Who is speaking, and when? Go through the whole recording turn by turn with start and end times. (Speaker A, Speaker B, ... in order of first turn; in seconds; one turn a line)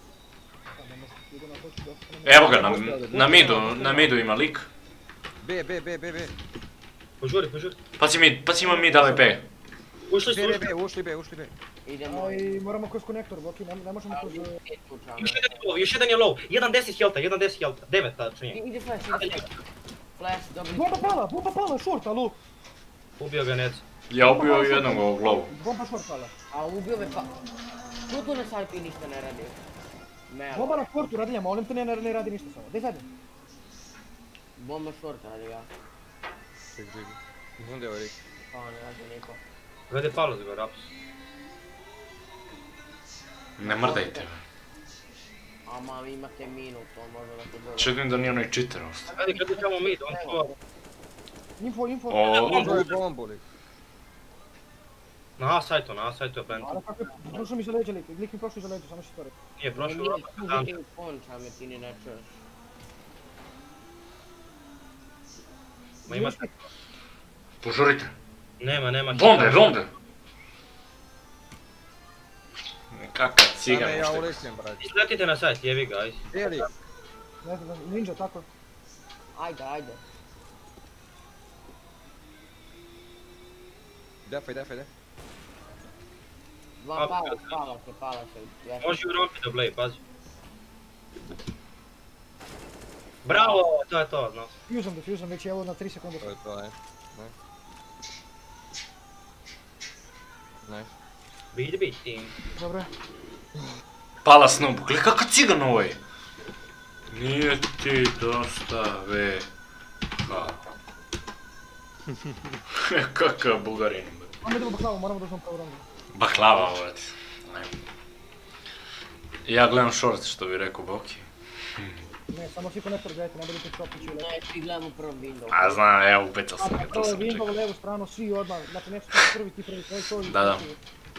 Speaker A: 0.7-4.2
Speaker B: 2.2-4.7
Speaker C: 2.6-3.0
Speaker C: 5.4-6.3
Speaker D: 7.2-7.8
Speaker B: 8.0-9.4
Speaker A: 8.6-9.4
Speaker D: 10.1-10.7
Speaker C: 10.2-11.5
Speaker E: 11.9-12.6
Speaker A: 12.1-14.6
Speaker E: 14.1-15.8
Speaker D: 15.2-18.6
Speaker E: 18.5-19.5
Speaker D: 19.1-19.6
Speaker E: 20.2-21.2
Speaker A: 20.7-22.4
Speaker D: 23.2-23.8
Speaker B: 24.1-25.5
Speaker A: 24.2-26.3
Speaker E: 26.5-27.3
Speaker E: 28.1-29.6
Speaker E: 30.3-31.0
Speaker A: 30.5-33.1
Speaker E: 34.6-35.7
Speaker C: 36.7-38.2
Speaker E: 38.5-39.4
Speaker D: 39.9-40.9
Speaker B: 43.6-44.4
Speaker E: 43.6-44.2
Speaker E: 45.7-48.0
Speaker B: 47.8-49.1
Speaker E: 49.1-50.5
Speaker D: 49.1-50.5
Speaker A: 51.6-52.4
Speaker B: 52.1-52.8
Speaker D: 52.3-53.0
Speaker C: 52.4-53.4
Speaker D: 55.4-56.8
Speaker A: 56.6-59.3
Speaker E: 56.6-57.5
Speaker D: 59.6-60.7
Speaker E: 59.7-62.3
Speaker A: 66.1-66.5
Speaker D: 66.1-66.6
Speaker B: 67.6-68.1
Speaker D: 68.6-69.8
Speaker B: 69.1-69.9
Speaker B: 72.9-74.4
Speaker C: 73.7-74.8
Speaker D: 74.8-76.7
Speaker C: 76.3-76.7
Speaker A: 77.4-78.5
Speaker E: 79.3-80.0
Speaker C: 84.3-84.9
Speaker E: 86.8-89.3
Speaker D: 87.0-87.5
Speaker D: 88.8-90.0
Speaker D: 93.2-94.5
Speaker E: 93.3-93.6
Speaker A: 94.7-96.3
Speaker C: 96.2-97.3
Speaker C: 100.7-100.9
Speaker D: 101.5-102.3
Speaker A: 102.6-102.9
Speaker B: 104.2-106.0
Speaker B: 107.1-109.5
Speaker B: 110.2-110.6
Speaker C: 112.1-112.6
Speaker B: 112.8-114.3
Speaker A: 114.4-115.8
Speaker B: 116.1-117.8
Speaker B: 119.5-122.0
Speaker A: 122.3-124.3
Speaker E: 124.1-125.9
Speaker B: 125.5-127.5
Speaker A: 126.6-130.8
Speaker B: 130.2-130.7